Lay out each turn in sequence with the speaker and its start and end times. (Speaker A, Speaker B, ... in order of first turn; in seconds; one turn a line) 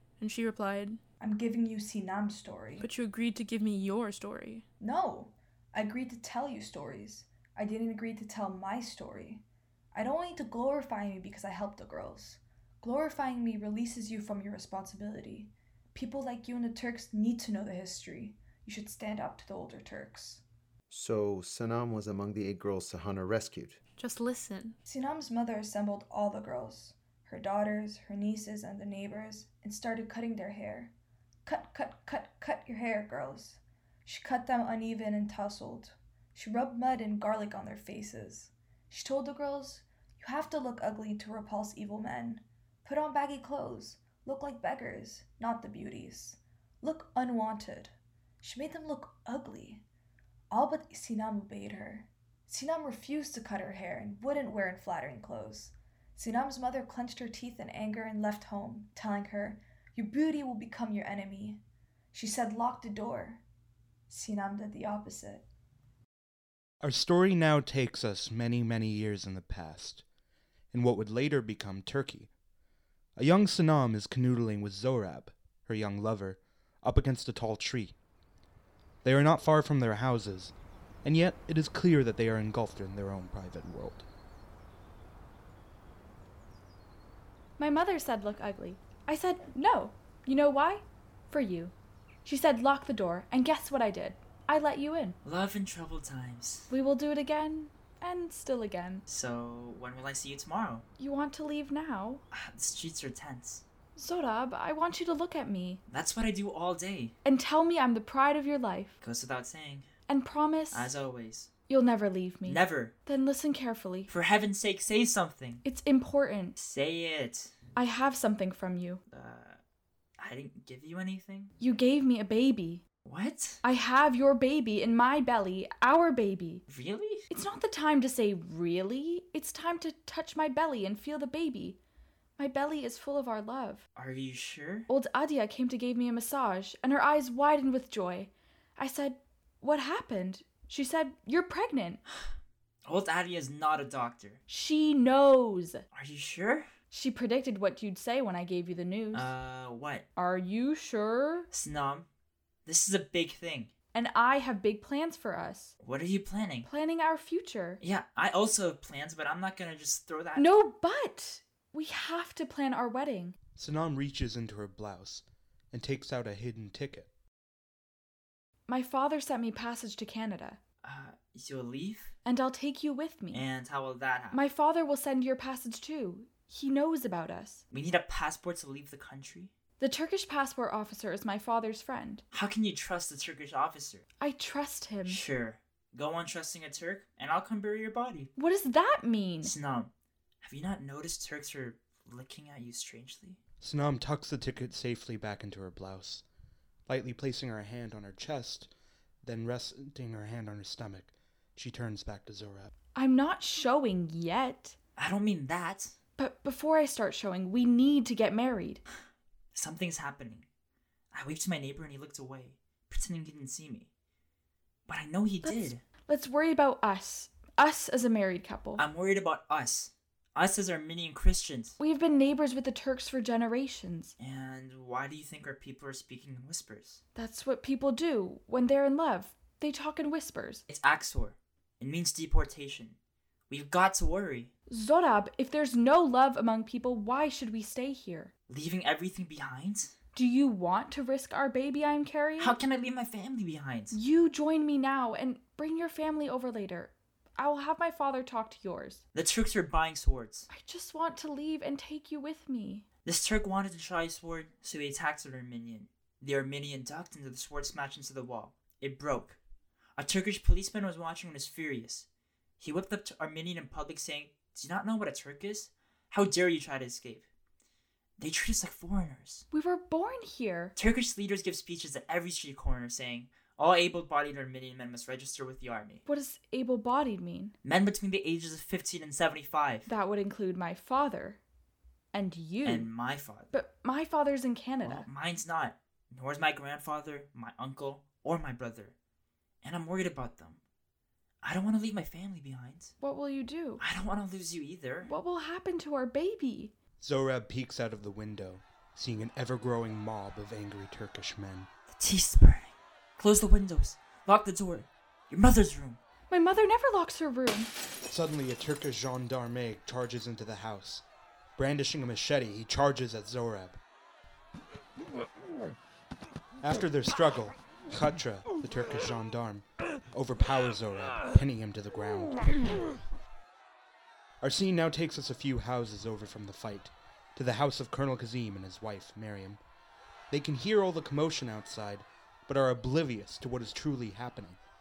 Speaker A: 0.2-1.0
Speaker B: 1.2-2.9
Speaker A: 2.8-4.6
Speaker B: 4.8-20.4
Speaker C: 20.9-23.8
Speaker A: 24.0-24.8
Speaker B: 24.8-30.9
Speaker B: 31.4-49.8
Speaker B: 50.5-61.6
Speaker B: 62.1-63.4
Speaker B: 64.1-65.5
Speaker D: 66.8-70.0
Speaker D: 70.7-72.3
Speaker D: 73.2-78.0
Speaker D: 79.0-84.0
Speaker E: 87.6-91.7
Speaker E: 92.2-95.2
Speaker F: 95.2-96.7
Speaker E: 96.7-99.0
Speaker F: 99.1-100.8
Speaker E: 101.0-102.2
Speaker F: 102.3-103.6
Speaker E: 104.0-105.8
Speaker F: 105.9-107.1
Speaker E: 107.2-109.0
Speaker F: 109.0-109.8
Speaker E: 110.1-111.0
Speaker F: 110.7-111.5
Speaker E: 111.7-114.1
Speaker F: 112.5-112.9
Speaker F: 114.1-115.6
Speaker E: 115.6-116.6
Speaker F: 116.6-117.5
Speaker E: 117.8-119.0
Speaker F: 119.1-119.6
Speaker F: 120.2-121.5
Speaker E: 121.6-122.8
Speaker F: 123.0-123.6
Speaker E: 123.6-126.6
Speaker F: 126.7-127.2
Speaker E: 127.3-131.8
Speaker E: 132.4-133.8
Speaker F: 133.9-134.9
Speaker E: 134.9-142.0
Speaker F: 142.8-144.4
Speaker E: 144.5-145.8
Speaker F: 145.9-146.7
Speaker E: 146.9-149.3
Speaker F: 149.1-150.0
Speaker E: 150.2-151.5
Speaker F: 151.5-152.1
Speaker F: 152.7-153.7
Speaker E: 153.9-155.7
Speaker F: 155.8-156.7
Speaker E: 156.6-157.8
Speaker F: 157.8-160.5
Speaker E: 160.3-163.3
Speaker D: 163.6-167.1
Speaker E: 168.7-170.6
Speaker F: 170.8-172.1
Speaker E: 172.2-173.4
Speaker F: 173.3-174.4
Speaker E: 174.3-177.6
Speaker F: 177.7-179.5
Speaker E: 179.8-182.2
Speaker F: 182.3-184.0
Speaker E: 184.2-185.2
Speaker F: 185.1-188.3
Speaker E: 188.3-189.5
Speaker F: 189.4-189.9
Speaker F: 190.4-193.4
Speaker D: 193.6-196.2
Speaker D: 196.9-198.7
Speaker D: 199.2-202.7
Speaker E: 202.9-204.8
Speaker F: 205.0-205.9
Speaker E: 206.2-208.8
Speaker F: 209.5-210.4
Speaker F: 211.1-213.9
Speaker F: 214.9-215.8
Speaker E: 215.4-218.8
Speaker F: 218.8-221.8
Speaker E: 221.8-224.1
Speaker F: 224.2-227.0
Speaker E: 227.1-230.6
Speaker F: 230.7-233.0
Speaker F: 233.5-234.5
Speaker E: 234.7-238.3
Speaker F: 238.5-239.9
Speaker E: 240.1-242.6
Speaker F: 242.4-244.0
Speaker E: 243.9-249.0
Speaker F: 249.1-250.5
Speaker E: 250.5-252.8
Speaker F: 253.0-259.4
Speaker F: 260.0-262.1
Speaker F: 262.6-267.2
Speaker F: 268.2-269.4
Speaker E: 269.5-270.7
Speaker F: 270.8-276.0
Speaker E: 276.1-277.5
Speaker F: 277.6-279.9
Speaker E: 279.9-281.4
Speaker E: 282.1-282.9
Speaker F: 282.6-283.5
Speaker E: 283.5-285.1
Speaker F: 284.8-288.9
Speaker F: 289.6-290.6
Speaker F: 291.4-292.9
Speaker E: 293.0-293.8
Speaker F: 293.8-295.1
Speaker E: 295.1-296.7
Speaker D: 297.0-301.7
Speaker F: 301.9-306.0
Speaker E: 306.3-307.7
Speaker D: 308.1-311.0
Speaker D: 311.6-313.8
Speaker D: 316.6-322.8
Speaker D: 324.4-329.6
Speaker D: 330.3-334.6